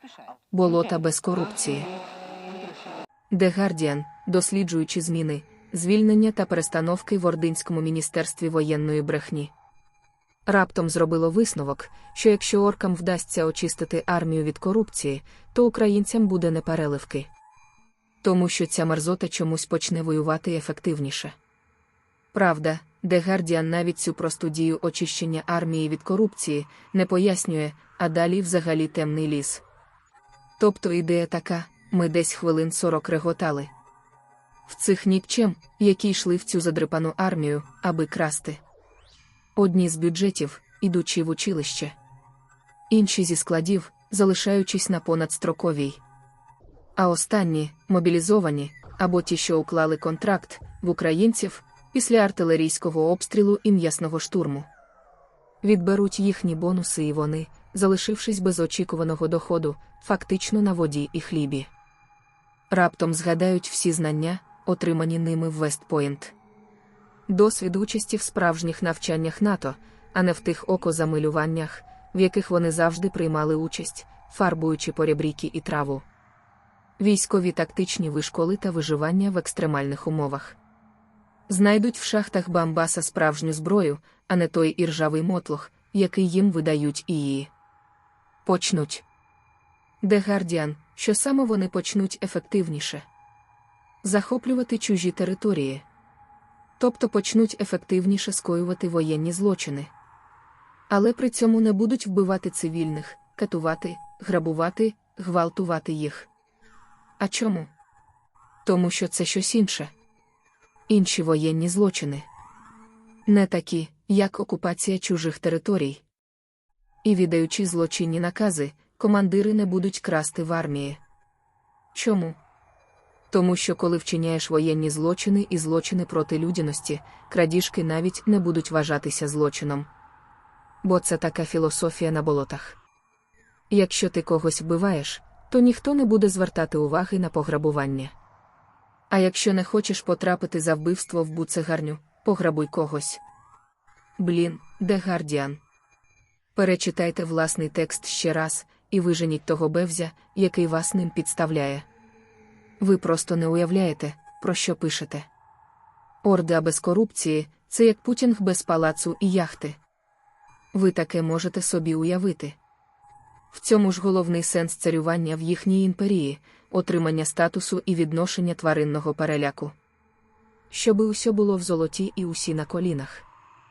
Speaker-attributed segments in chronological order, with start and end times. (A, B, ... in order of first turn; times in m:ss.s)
0:00.5-0:01.9 A
0:03.3-0:09.5 A
0:10.5-0:17.3 A
0:18.2-0:21.4 A
0:22.3-0:29.6 A
0:30.6-0:33.7 A
0:34.7-0:38.6 A
0:39.6-0:42.0 A
0:42.9-0:46.0 A
0:47.0-0:54.7 A
0:55.6-1:01.7 A
1:02.7-1:06.4 A
1:07.3-1:16.0 A
1:17.0-1:20.6 A
1:21.5-1:27.5 A
1:28.4-1:29.0 A
1:30.0-1:33.1 A
1:34.0-1:35.8 A
1:36.8-1:39.9 A
1:40.9-1:46.3 A
1:47.2-1:47.7 A
1:48.6-1:49.9 A
1:50.9-1:52.3 A
1:53.3-1:56.0 A
1:57.0-2:01.0 A
2:01.9-2:02.4 A
2:03.3-2:09.9 A
2:10.8-2:12.8 A
2:13.7-2:18.1 A
2:19.1-2:23.2 A
2:24.2-2:25.6 A
2:26.6-2:31.9 A
2:32.8-2:35.3 A
2:36.2-2:39.8 A
2:40.7-2:42.6 A
2:43.5-2:49.8 A
2:50.7-2:53.2 A